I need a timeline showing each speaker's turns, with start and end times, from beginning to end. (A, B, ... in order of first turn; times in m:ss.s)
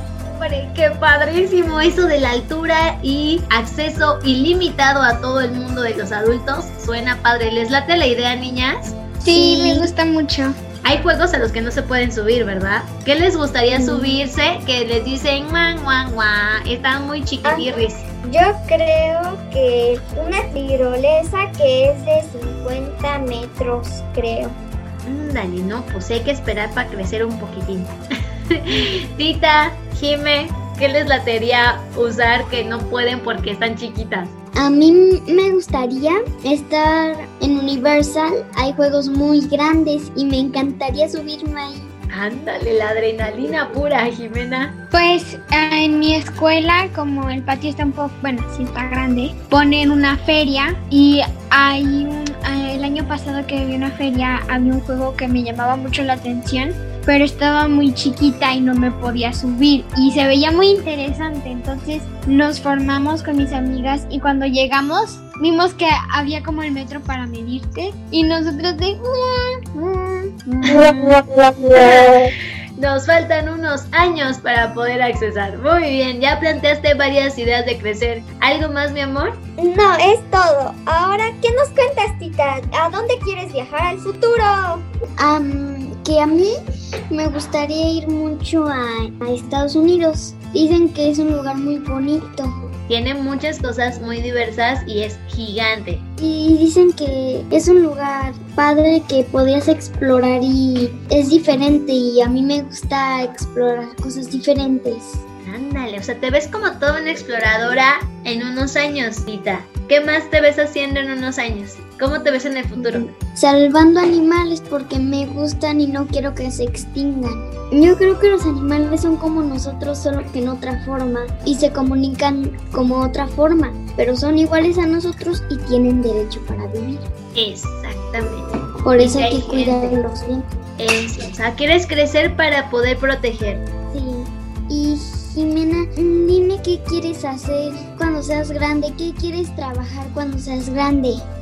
0:00.2-0:09.0 A
0:09.2-0:10.5 B
0:09.2-0:09.9 C
0:10.8-0:18.1 A
0:18.2-0:24.6 D
0:25.0-0:27.9 A
0:28.6-0:34.3 A
0:34.6-0:41.9 C
0:42.1-0:44.7 A
0:44.9-1:10.3 B
1:10.5-1:19.4 A
1:19.6-1:24.8 D
1:25.2-1:26.5 C
1:27.1-1:32.5 C
1:32.9-1:36.0 A
1:36.2-1:45.2 C
1:45.4-1:53.1 A
1:52.8-2:07.0 C
2:07.3-2:09.9 A
2:08.8-2:10.4 C
2:10.8-2:13.6 A
2:13.9-2:21.2 C